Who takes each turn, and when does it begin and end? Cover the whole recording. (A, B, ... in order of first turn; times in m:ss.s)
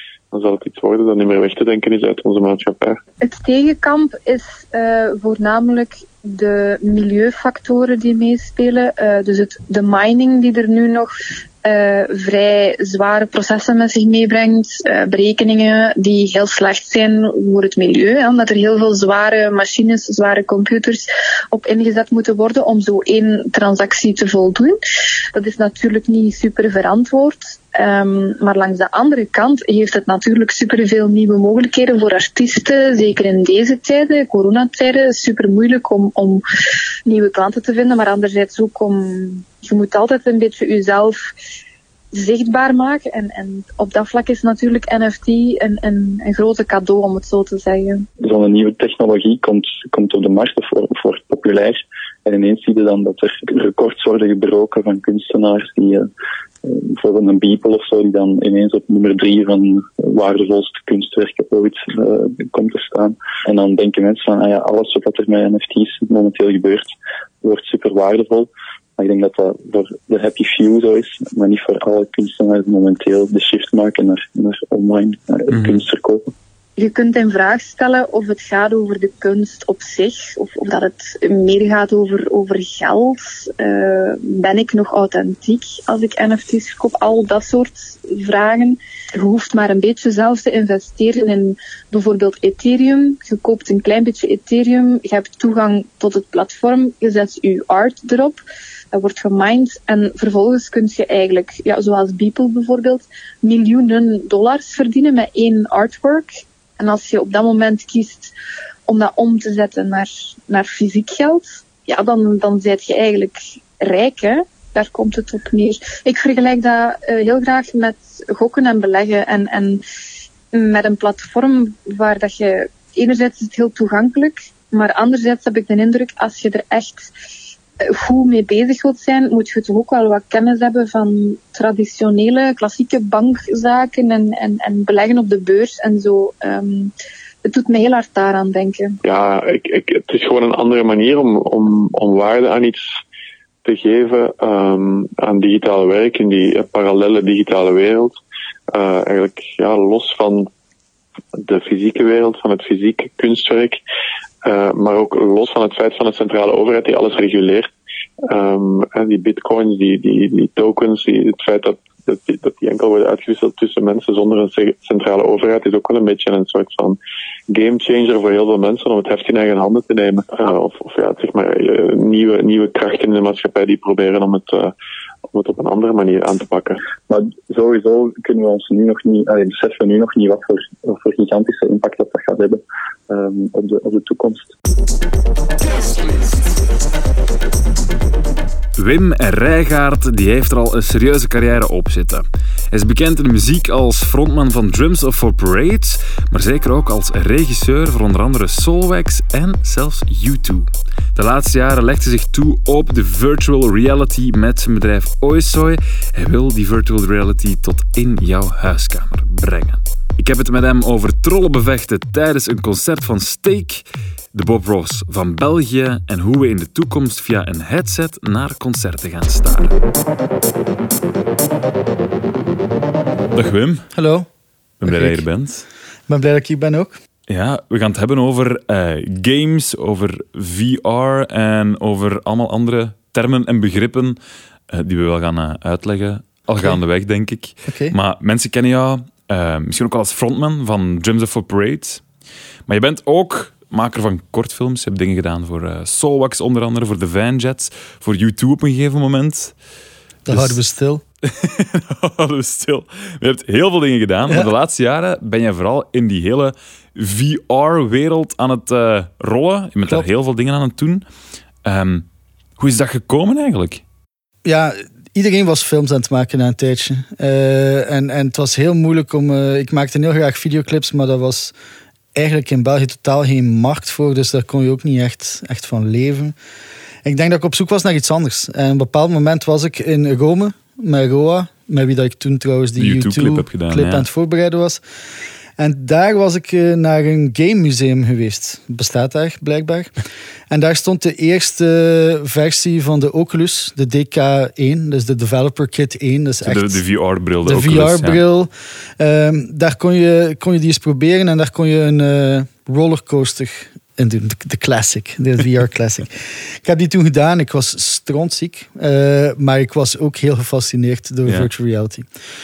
0:00.3-0:03.0 A
0:03.2-0:11.1 B
0:11.6-0:24.8 B
0:25.3-0:36.4 B
0:37.1-0:41.2 B
0:42.1-0:48.0 B
0:48.2-0:56.1 C
0:56.6-1:06.9 C
1:07.4-1:16.3 C
1:15.5-1:15.8 D
1:16.8-1:38.4 B
1:38.9-1:48.3 B
1:48.9-1:59.8 B
2:00.5-2:07.0 B
2:07.8-2:16.9 B
2:17.4-2:19.0 B
2:19.0-2:22.9 A
2:23.6-2:28.2 A
2:28.7-2:30.5 A
2:31.4-2:33.8 A
2:34.4-2:37.7 A
2:38.3-2:47.0 A
2:47.5-2:54.7 A
2:55.3-2:56.8 A
2:57.1-3:04.5 C
3:08.8-3:39.8 D
3:43.3-3:43.9 D
3:43.9-3:44.3 E
3:44.8-3:45.6 D
3:44.8-3:45.2 E
3:46.1-3:47.0 E
3:47.3-3:54.2 D
3:54.7-4:02.0 D
3:57.6-3:57.9 E
4:02.7-4:09.5 D
4:10.2-4:11.0 E
4:10.3-4:10.6 D
4:11.2-4:21.0 D
4:21.6-4:22.0 D
4:22.6-4:23.8 D
4:24.4-4:31.5 E
4:32.1-4:36.3 E
4:37.0-4:44.8 E
4:42.8-4:44.1 D
4:45.6-4:49.9 E
4:50.5-4:56.8 E
4:56.4-4:58.2 D
4:57.4-5:12.0 E
5:11.2-5:11.5 D